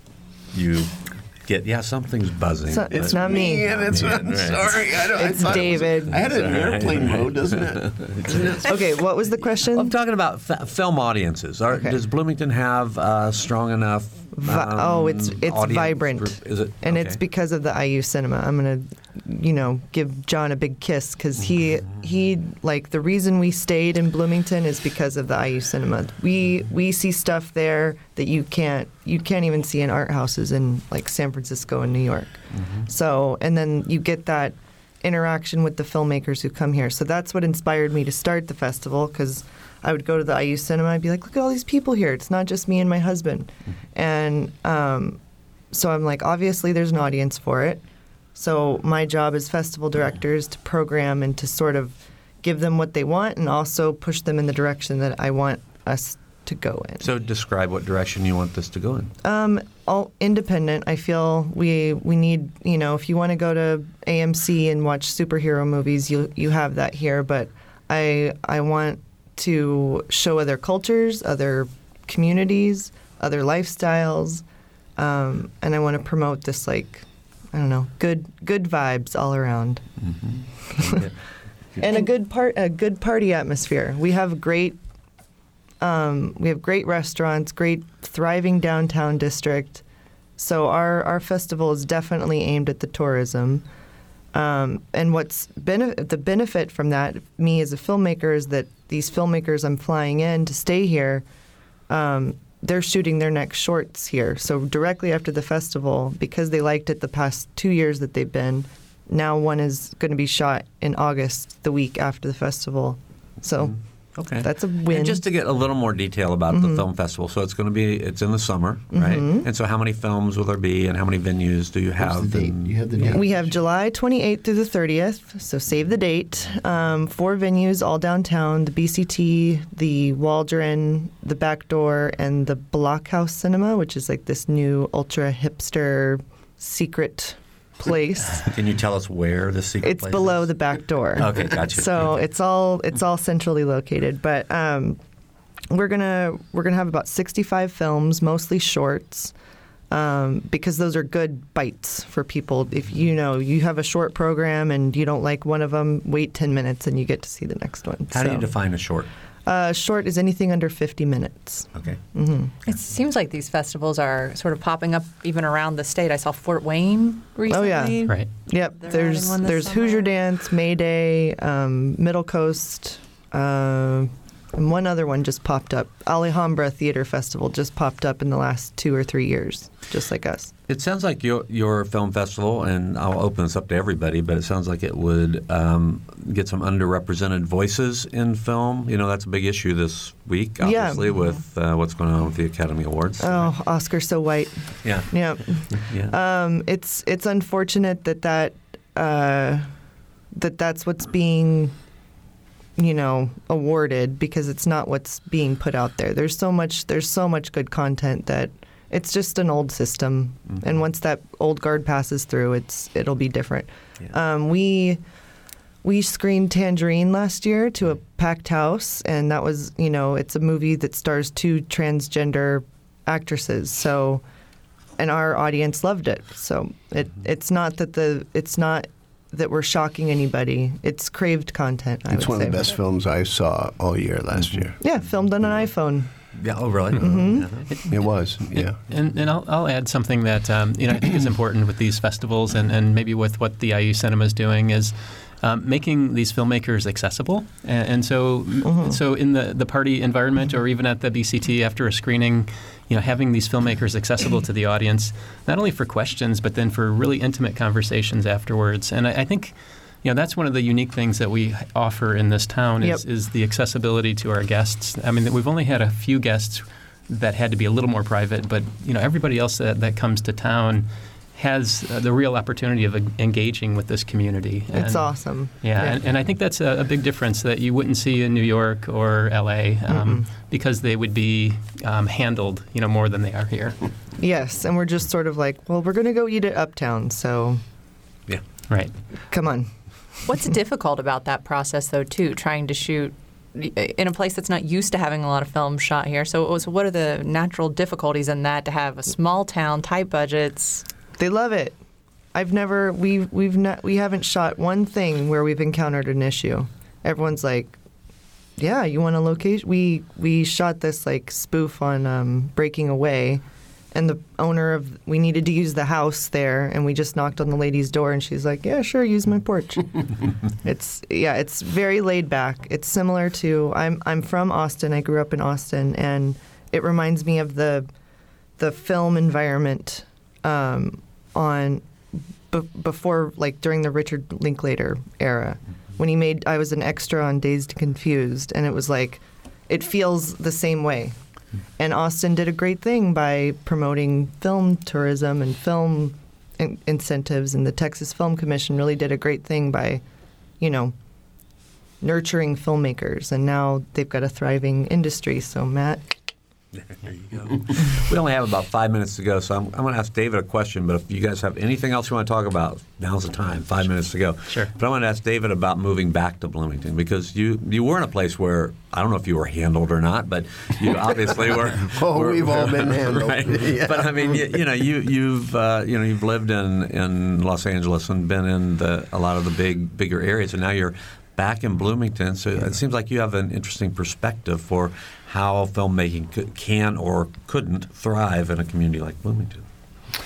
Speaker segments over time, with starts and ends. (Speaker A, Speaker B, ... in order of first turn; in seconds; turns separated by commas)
Speaker A: 0.5-5.0, Speaker B: 2.7-3.7, Speaker C: 2.9-8.8, Speaker B: 5.2-6.3, Speaker A: 5.5-8.6, Speaker B: 8.6-9.9, Speaker A: 9.7-17.2, Speaker B: 11.7-12.0, Speaker B: 14.3-45.2, Speaker A: 32.5-32.9, Speaker B: 45.7-47.8, Speaker B: 48.4-57.0, Speaker A: 57.0-59.1, Speaker B: 59.2-74.4, Speaker B: 75.0-79.8, Speaker A: 80.0-81.1, Speaker B: 80.8-81.0, Speaker B: 81.8-84.8, Speaker B: 85.8-89.8, Speaker B: 90.4-93.6, Speaker B: 94.3-101.2, Speaker B: 101.9-113.8, Speaker A: 113.6-123.2, Speaker B: 114.3-115.2, Speaker B: 116.5-116.8, Speaker B: 118.9-119.5, Speaker C: 122.0-123.5, Speaker B: 123.1-138.5, Speaker A: 138.3-140.5, Speaker B: 139.8-145.0, Speaker A: 141.2-142.2, Speaker B: 145.7-149.3, Speaker B: 149.9-158.5, Speaker A: 158.1-159.1, Speaker B: 159.5-162.5, Speaker A: 161.8-162.0, Speaker D: 162.7-170.1, Speaker B: 167.5-180.5, Speaker A: 180.7-193.5, Speaker B: 190.6-191.1, Speaker B: 193.2-199.7, Speaker A: 194.8-195.2, Speaker A: 195.7-196.2, Speaker B: 200.3-201.7, Speaker B: 202.8-215.0, Speaker B: 215.8-224.2, Speaker B: 225.0-232.7, Speaker C: 232.1-234.8, Speaker A: 234.4-234.7, Speaker B: 234.8-236.1, Speaker A: 236.3-237.7, Speaker B: 237.0-237.5, Speaker E: 237.7-283.8, Speaker C: 237.9-238.8, Speaker B: 248.6-249.0, Speaker B: 274.7-276.0, Speaker B: 279.9-280.2, Speaker B: 284.2-287.6, Speaker E: 288.7-288.9, Speaker B: 289.3-289.7, Speaker D: 290.3-300.8, Speaker B: 301.2-301.8, Speaker B: 302.4-307.8, Speaker B: 308.6-327.9, Speaker B: 328.6-331.9, Speaker B: 332.5-341.1, Speaker B: 341.8-350.0, Speaker B: 350.6-350.9, Speaker B: 352.0-356.1, Speaker A: 356.8-389.7, Speaker C: 371.7-374.6